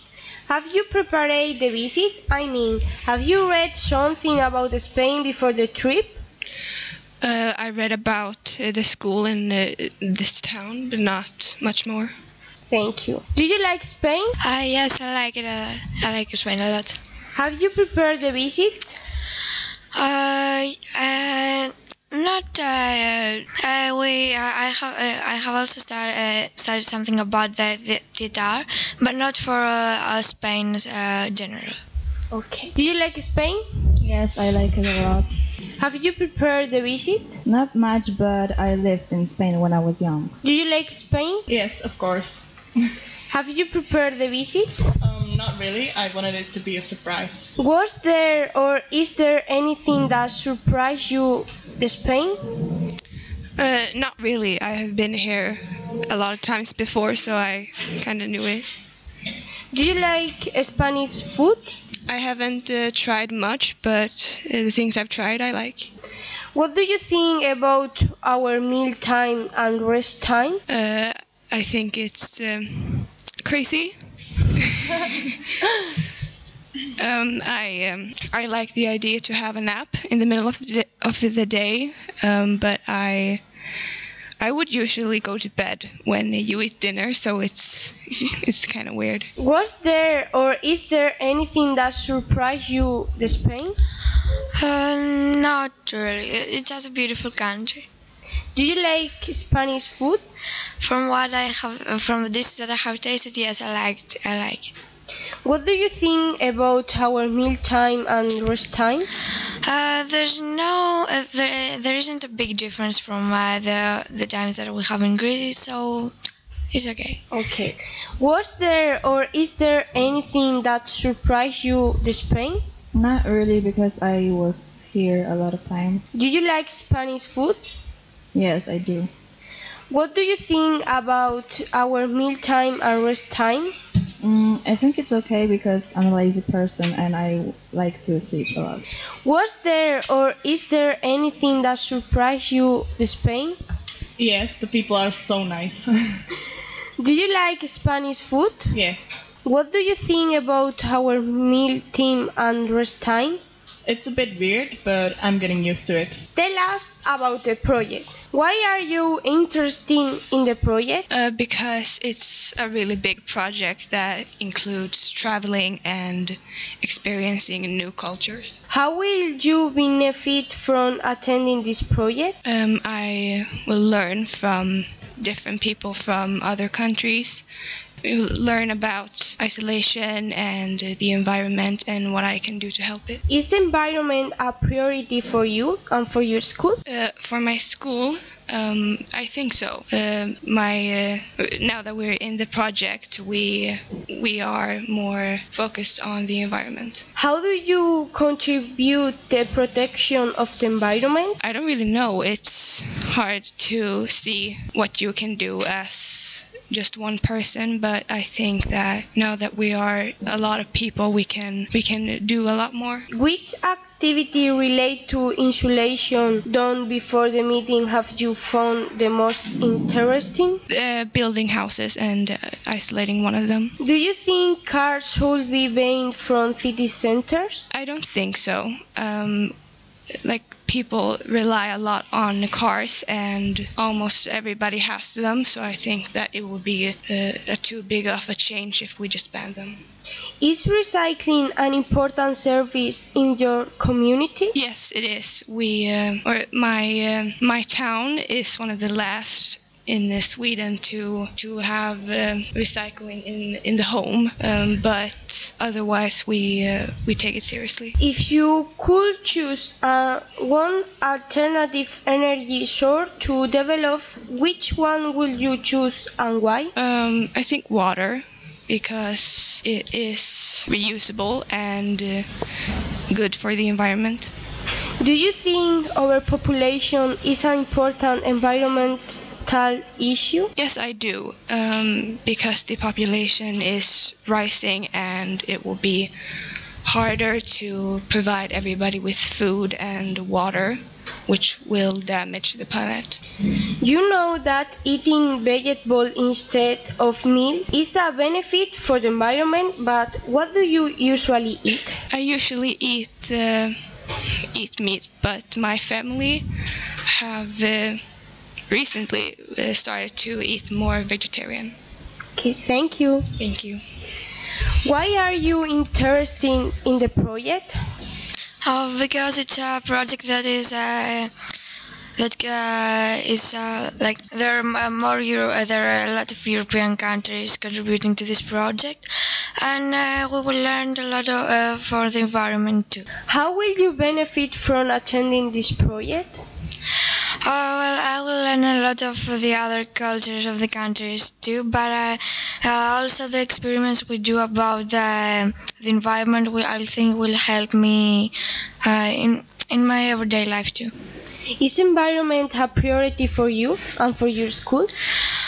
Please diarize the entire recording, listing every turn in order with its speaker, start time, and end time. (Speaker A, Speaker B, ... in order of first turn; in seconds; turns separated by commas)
Speaker A: 0.5-6.2, Speaker B: 7.2-12.1, Speaker A: 12.7-14.4, Speaker C: 14.4-17.0, Speaker A: 17.4-19.0, Speaker C: 19.9-31.8, Speaker A: 32.3-33.6, Speaker D: 34.0-35.3, Speaker A: 35.8-37.4, Speaker D: 37.5-40.4, Speaker A: 40.4-41.4, Speaker E: 41.5-42.5, Speaker A: 43.3-44.7, Speaker E: 45.0-47.5, Speaker A: 47.6-52.4, Speaker B: 53.6-58.7, Speaker A: 59.7-61.7, Speaker B: 62.1-65.9, Speaker A: 66.5-70.6, Speaker B: 70.7-74.0, Speaker B: 74.6-75.1, Speaker B: 77.0-83.4, Speaker B: 84.4-89.3, Speaker A: 89.4-93.8, Speaker C: 94.6-97.8, Speaker A: 98.5-100.2, Speaker C: 100.8-104.7, Speaker A: 105.4-109.1, Speaker C: 109.6-116.1, Speaker C: 116.7-117.2, Speaker A: 117.3-122.6, Speaker D: 122.9-126.0, Speaker A: 126.1-127.8, Speaker D: 128.3-129.1, Speaker A: 129.9-133.7, Speaker D: 134.2-138.8, Speaker A: 139.2-143.6, Speaker E: 144.2-145.9, Speaker A: 147.0-148.7, Speaker E: 148.7-149.2, Speaker A: 149.4-153.4, Speaker E: 153.9-156.2, Speaker A: 156.4-161.1, Speaker B: 161.1-168.6, Speaker A: 168.7-172.3, Speaker B: 172.4-177.4, Speaker B: 178.0-183.2, Speaker A: 183.3-186.8, Speaker B: 186.9-197.0, Speaker A: 197.2-201.4, Speaker B: 201.4-213.1, Speaker A: 213.1-220.6, Speaker B: 220.7-223.7, Speaker A: 223.8-227.6, Speaker B: 227.7-229.6, Speaker B: 230.2-239.8, Speaker A: 240.4-244.5, Speaker B: 244.5-258.0, Speaker A: 258.0-266.7, Speaker B: 266.8-272.3, Speaker B: 273.1-274.3, Speaker A: 275.0-280.5, Speaker B: 280.6-286.1, Speaker B: 286.9-293.2, Speaker A: 293.8-302.0, Speaker B: 302.1-303.8, Speaker B: 304.5-306.5, Speaker B: 307.1-308.0, Speaker B: 308.7-311.8, Speaker A: 312.4-313.2, Speaker B: 313.4-313.8, Speaker A: 314.8-317.8, Speaker C: 318.6-321.3, Speaker C: 322.2-333.1, Speaker A: 333.3-336.4, Speaker C: 337.4-350.9, Speaker A: 351.6-354.9